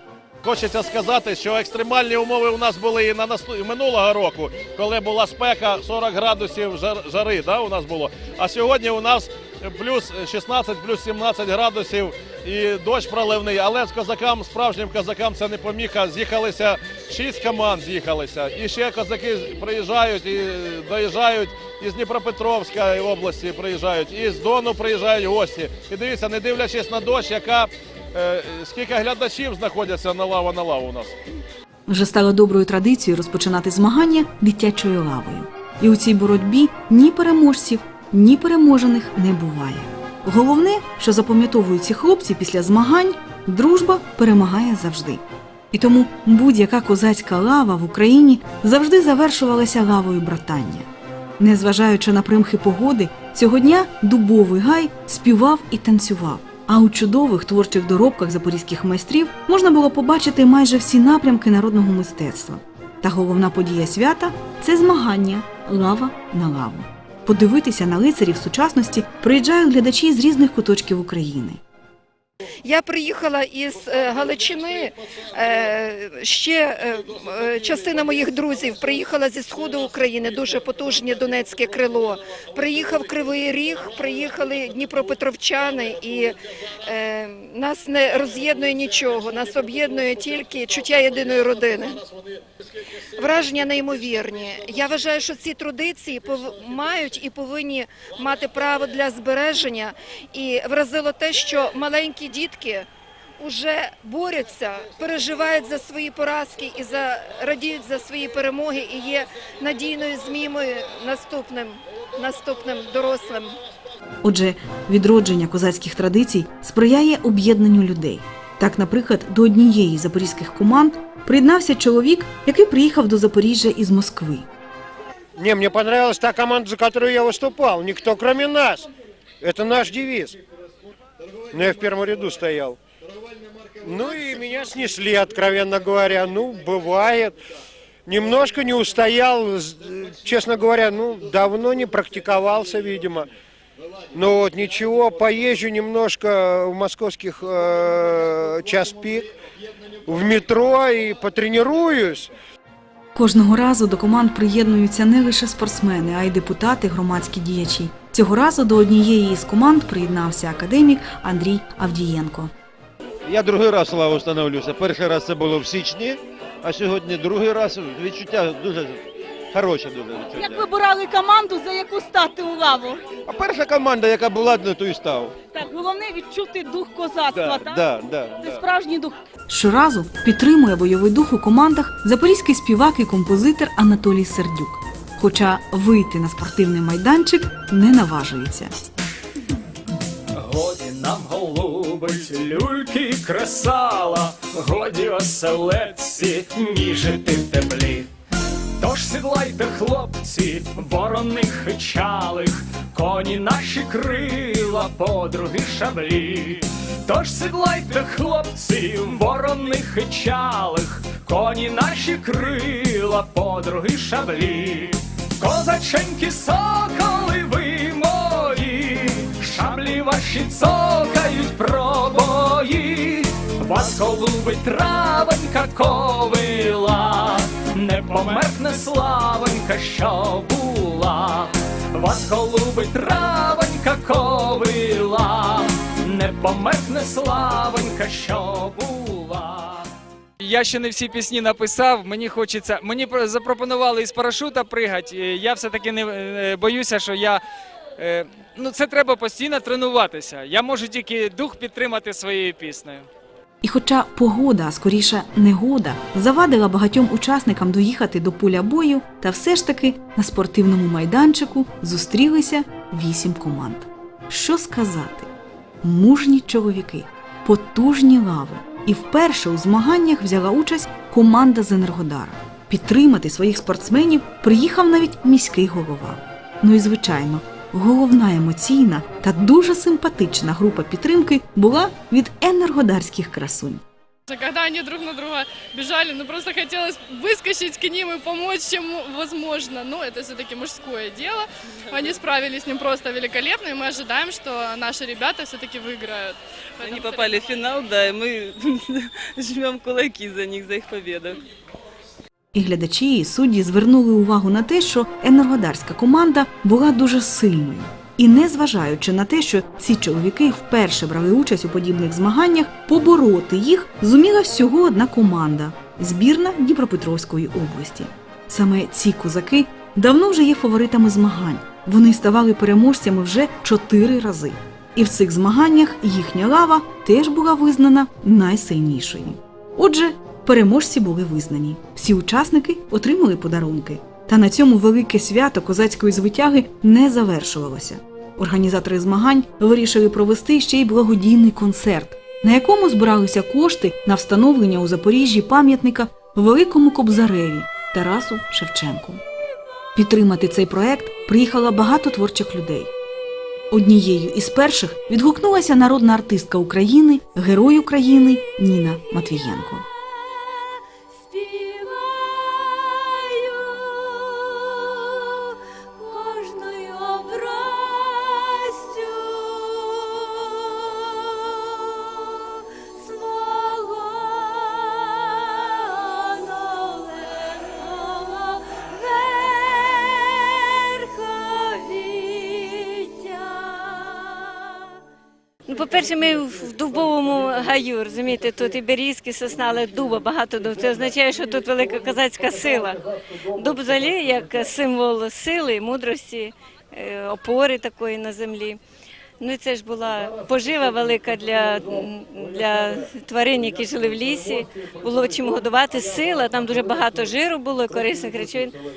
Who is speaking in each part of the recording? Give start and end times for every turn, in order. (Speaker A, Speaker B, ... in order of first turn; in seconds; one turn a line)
Speaker A: 0.4-31.1
Speaker B: 31.9-50.9
Speaker B: 51.4-71.6
Speaker C: 72.6-86.3
Speaker C: 86.8-92.0
Speaker C: 93.2-102.8
Speaker C: 103.4-113.5
Speaker B: 114.2-124.5
Speaker D: 125.4-128.9
Speaker D: 129.4-130.4
Speaker D: 131.5-132.8
Speaker D: 133.8-137.4
Speaker D: 138.1-143.3
Speaker D: 144.1-149.3
Speaker D: 150.1-152.3
Speaker B: 153.1-162.5
Speaker E: 163.2-169.0
Speaker E: 169.5-170.4
Speaker F: 170.3-173.0
Speaker E: 173.2-175.4
Speaker F: 175.4-179.2
Speaker E: 177.8-178.5
Speaker B: 179.5-188.7
Speaker G: 190.3-198.1
Speaker G: 198.8-239.9
Speaker H: 240.4-247.4
Speaker H: 248.0-253.1
Speaker B: 253.6-265.3
Speaker B: 265.8-283.8
Speaker I: 284.3-297.4
Speaker J: 296.9-301.4
Speaker B: 302.5-349.2
Speaker B: 349.9-352.9
Speaker B: 353.7-359.9
Speaker K: 361.3-362.6
Speaker K: 366.1-371.2
Speaker K: 373.0-384.7
Speaker K: 385.7-393.0
Speaker K: 393.5-398.8
Speaker K: 399.4-408.7